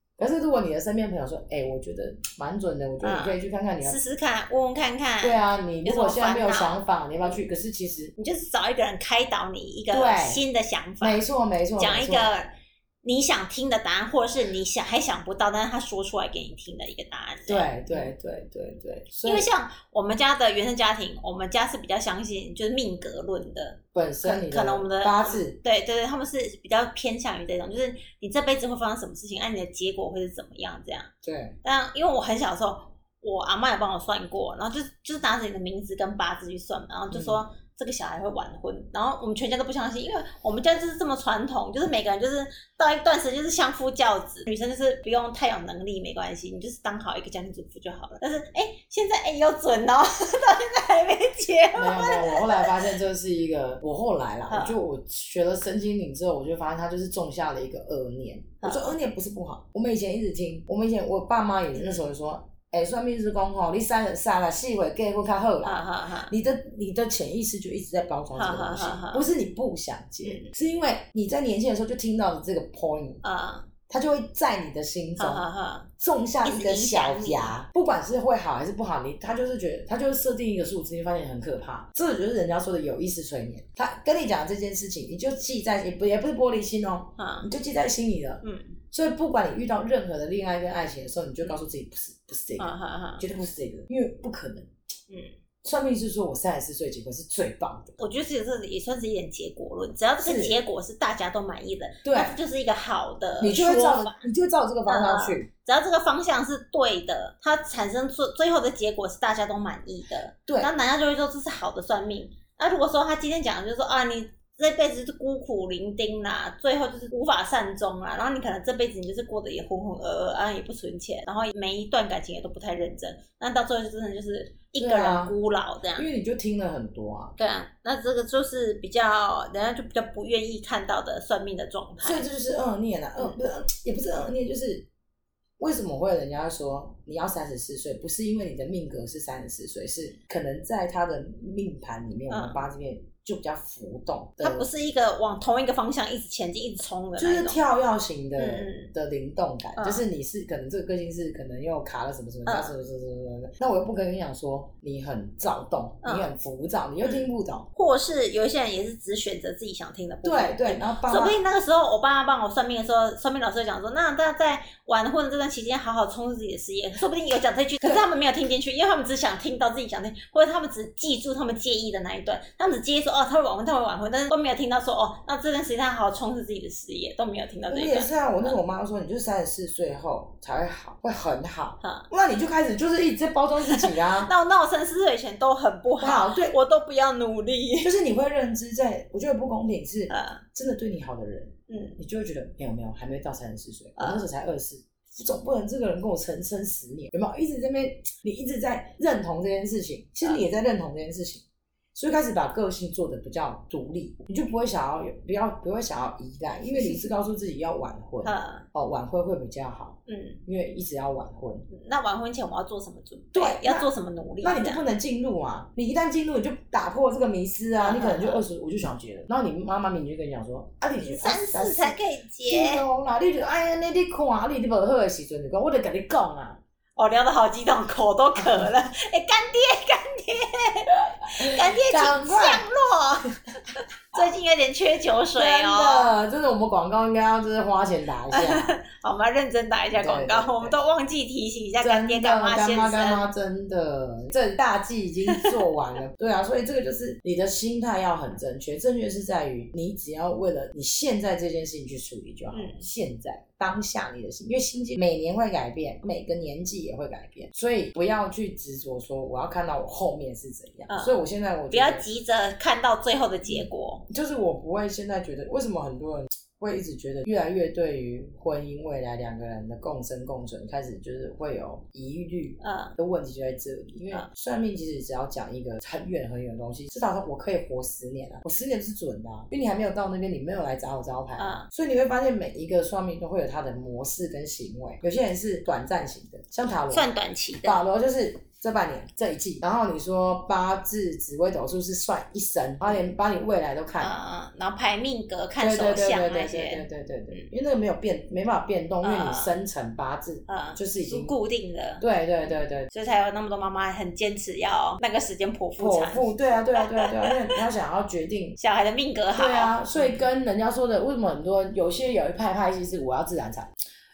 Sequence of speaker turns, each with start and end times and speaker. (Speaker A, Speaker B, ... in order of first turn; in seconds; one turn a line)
Speaker A: 0.2-4.0
Speaker B: 3.0-6.8
Speaker A: 5.2-8.1
Speaker B: 8.2-11.3
Speaker A: 9.9-10.4
Speaker A: 11.0-12.3
Speaker B: 11.8-12.5
Speaker B: 13.0-18.1
Speaker A: 17.5-19.5
Speaker B: 19.2-31.1
Speaker A: 23.9-25.6
Speaker A: 31.2-31.6
Speaker B: 31.6-52.7
Speaker A: 37.1-37.4
Speaker A: 51.8-73.2
Speaker B: 54.5-54.8
Speaker B: 58.6-59.0
Speaker B: 61.8-62.0
Speaker B: 65.6-66.3
Speaker B: 68.3-69.3
Speaker B: 70.2-70.5
Speaker B: 73.2-73.7
Speaker A: 73.9-75.5
Speaker B: 75.2-75.9
Speaker A: 76.0-94.7
Speaker B: 76.4-77.6
Speaker B: 87.2-87.5
Speaker B: 88.4-88.8
Speaker B: 92.6-93.2
Speaker A: 95.6-98.0
Speaker B: 98.0-104.2
Speaker A: 100.2-100.6
Speaker A: 102.0-102.4
Speaker A: 103.4-105.5
Speaker B: 104.9-126.1
Speaker A: 124.8-125.3
Speaker A: 126.0-127.4
Speaker B: 127.4-132.3
Speaker A: 132.0-134.9
Speaker A: 135.6-144.7
Speaker B: 142.3-142.6
Speaker B: 144.4-147.6
Speaker A: 147.2-157.7
Speaker B: 148.4-148.9
Speaker B: 149.8-150.1
Speaker B: 152.5-152.8
Speaker B: 156.0-156.3
Speaker B: 157.0-178.6
Speaker A: 160.2-161.4
Speaker A: 177.7-184.3
Speaker B: 181.8-182.1
Speaker B: 183.6-188.0
Speaker A: 186.0-186.6
Speaker A: 187.8-201.4
Speaker B: 190.1-190.4
Speaker B: 191.7-192.0
Speaker B: 194.0-194.3
Speaker A: 201.9-211.7
Speaker B: 206.7-207.1
Speaker B: 208.2-208.7
Speaker B: 210.1-210.4
Speaker B: 211.7-214.9
Speaker A: 213.3-213.9
Speaker A: 214.4-226.6
Speaker B: 217.8-218.4
Speaker B: 221.0-222.8
Speaker B: 227.0-233.6
Speaker A: 228.4-228.7
Speaker A: 231.4-232.7
Speaker B: 234.1-236.2
Speaker A: 235.4-238.8
Speaker B: 238.3-243.3
Speaker A: 239.9-240.8
Speaker A: 241.8-262.1
Speaker B: 252.5-252.8
Speaker B: 260.9-264.1
Speaker A: 263.5-287.1
Speaker B: 272.6-273.0
Speaker B: 281.4-281.7
Speaker B: 286.9-287.8
Speaker A: 287.6-294.1
Speaker B: 294.0-297.5
Speaker A: 295.6-301.3
Speaker B: 299.0-299.5
Speaker B: 300.5-302.1
Speaker A: 302.0-302.9
Speaker B: 302.9-307.4
Speaker A: 305.8-308.6
Speaker B: 308.6-310.3
Speaker A: 309.3-313.7